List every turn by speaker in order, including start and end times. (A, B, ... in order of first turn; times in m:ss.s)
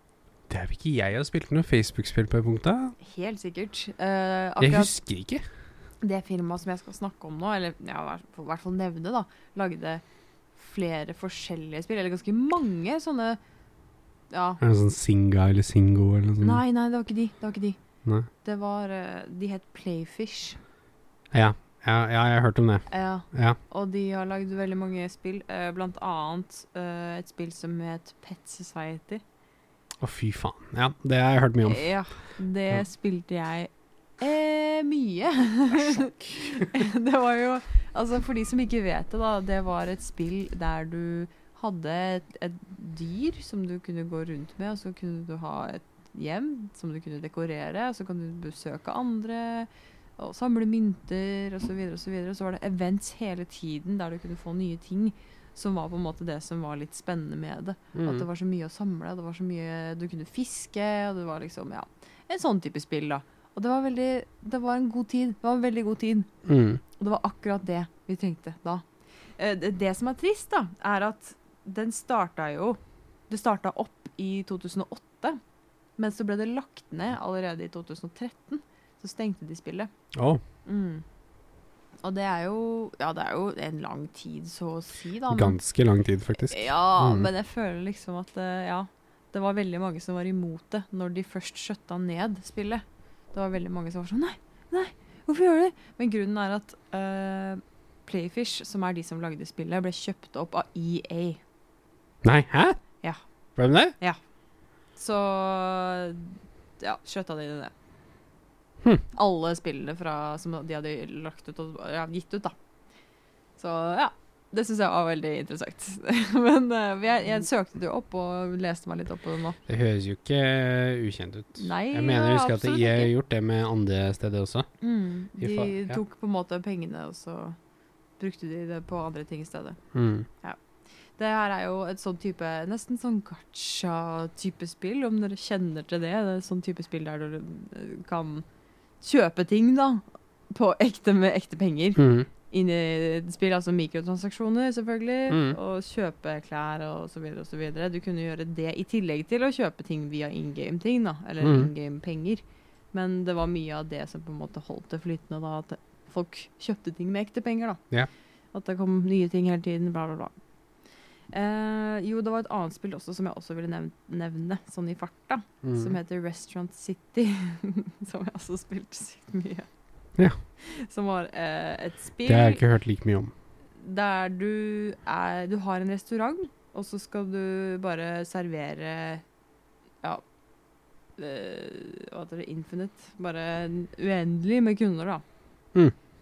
0:00.5-0:02.9 A
0:03.0-0:04.9 B
0:04.6-0:05.4 A
0:06.0-0:10.0 B
0:10.6-0:13.4 B
0:14.3-0:14.6 B
0:14.6-0:16.6 A
0:16.4-0:17.8 B
0:18.4-0:20.6 B
0:21.3-0:23.6 A
0:22.9-0:29.2 B
0:30.0-0:31.8 A
0:31.6-1:06.3 B
0:35.7-0:36.7 A
0:57.9-0:58.2 A
1:06.4-1:06.8 A
1:07.0-1:08.8 B
1:09.4-1:15.4 B
1:16.0-1:19.9 B
1:20.1-1:20.4 A
1:20.6-1:21.0 B
1:22.0-1:25.6 B
1:25.3-1:27.3 A
1:26.4-1:41.4 B
1:42.2-1:42.8 A
1:43.6-1:43.9 A
1:45.0-1:47.7 B
1:49.1-1:52.5 B
1:53.6-1:59.6 B
1:59.7-2:04.7 A
2:01.6-2:03.1 B
2:04.8-2:07.6 B
2:05.4-2:06.0 A
2:08.2-2:09.8 B
2:09.9-2:10.3 A
2:11.2-2:18.4 B
2:19.0-2:32.4 B
2:22.0-2:22.3 A
2:25.3-2:25.6 A
2:31.4-2:31.7 A
2:32.9-2:37.8 B
2:38.5-2:40.3 B
2:41.3-2:49.7 B
2:45.6-2:45.9 A
2:50.6-2:52.6 B
2:52.2-2:53.3 A
2:53.8-2:59.2 B
3:01.2-3:05.2 B